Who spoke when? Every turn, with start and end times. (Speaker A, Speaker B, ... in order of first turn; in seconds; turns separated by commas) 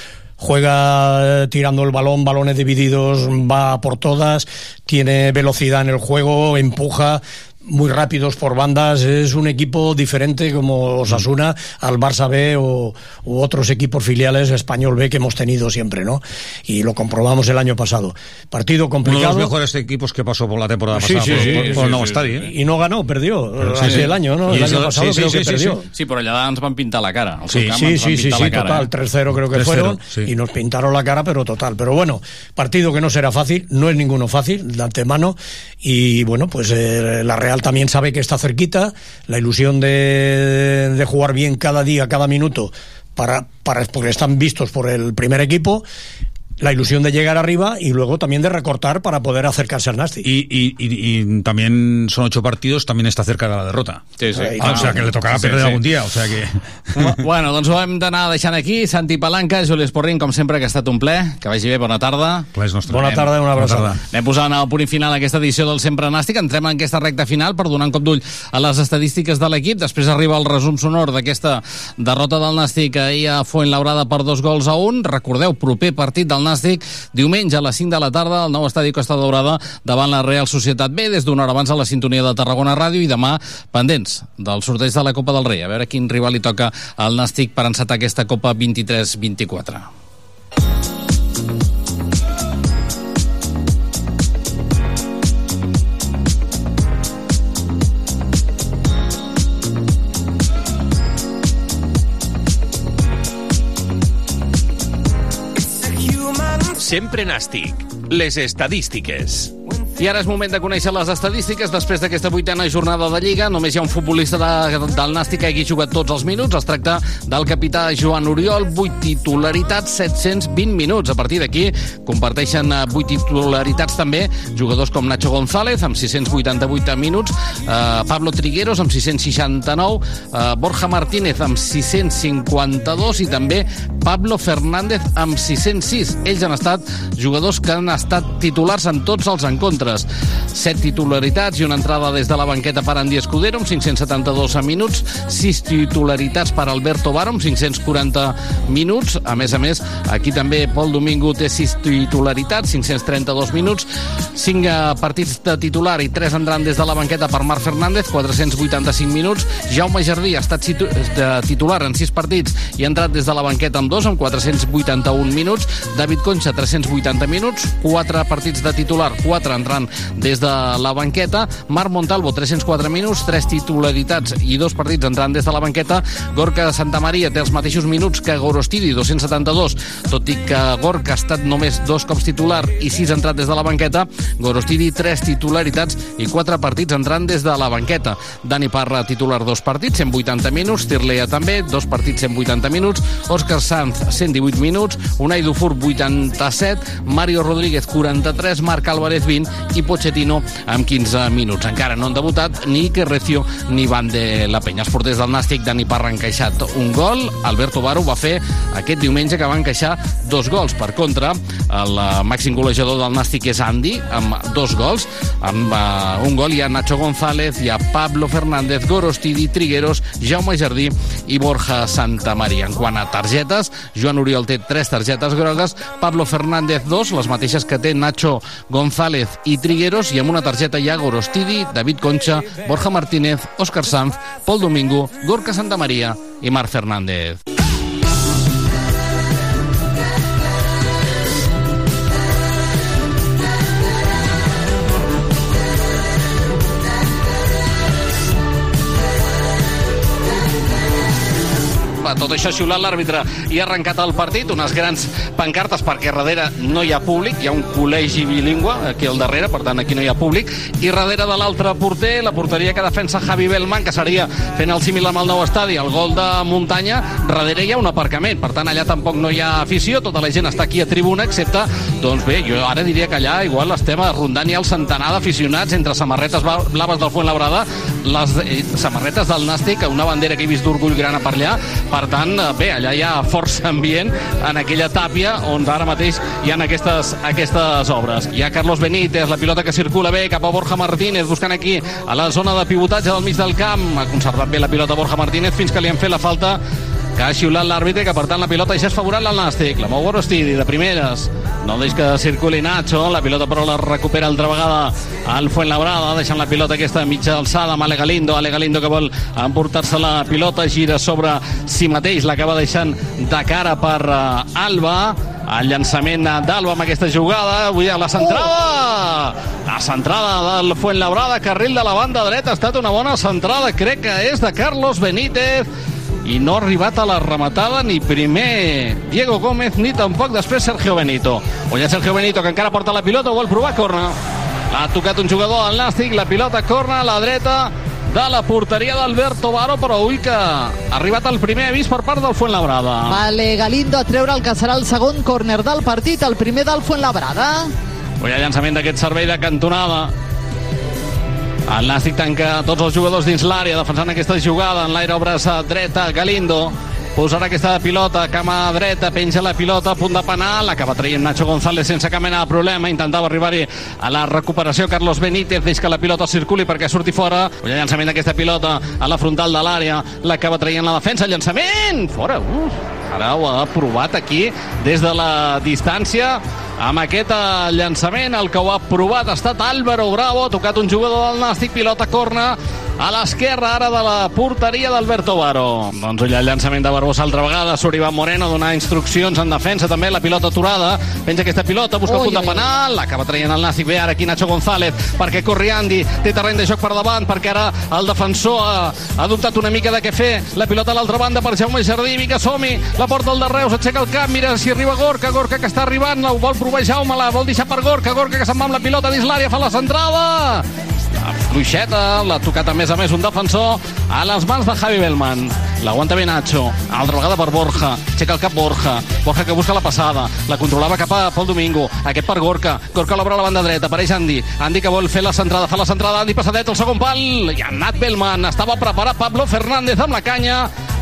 Speaker A: 0.4-19.5, Speaker B: 19.1-22.5, Speaker A: 20.9-21.9, Speaker C: 21.2-22.2, Speaker A: 22.4-25.9, Speaker B: 23.6-25.8, Speaker C: 25.9-28.9, Speaker B: 27.5-27.8, Speaker A: 27.7-45.9, Speaker B: 29.5-30.3, Speaker A: 46.6-50.3, Speaker B: 50.2-54.1, Speaker C: 54.2-55.8, Speaker A: 54.3-55.1, Speaker B: 54.6-57.2, Speaker C: 57.0-62.5, Speaker B: 62.5-64.0, Speaker A: 62.9-64.0, Speaker C: 64.1-89.9, Speaker D: 106.7-109.5, Speaker C: 110.0-237.4, Speaker C: 252.0-296.6, Speaker C: 297.2-325.7, Speaker C: 326.2-334.2, Speaker C: 334.7-343.2, Speaker E: 343.1-347.7, Speaker C: 348.2-350.1, Speaker C: 351.7-410.7, Speaker E: 392.1-392.7, Speaker C: 411.2-430.7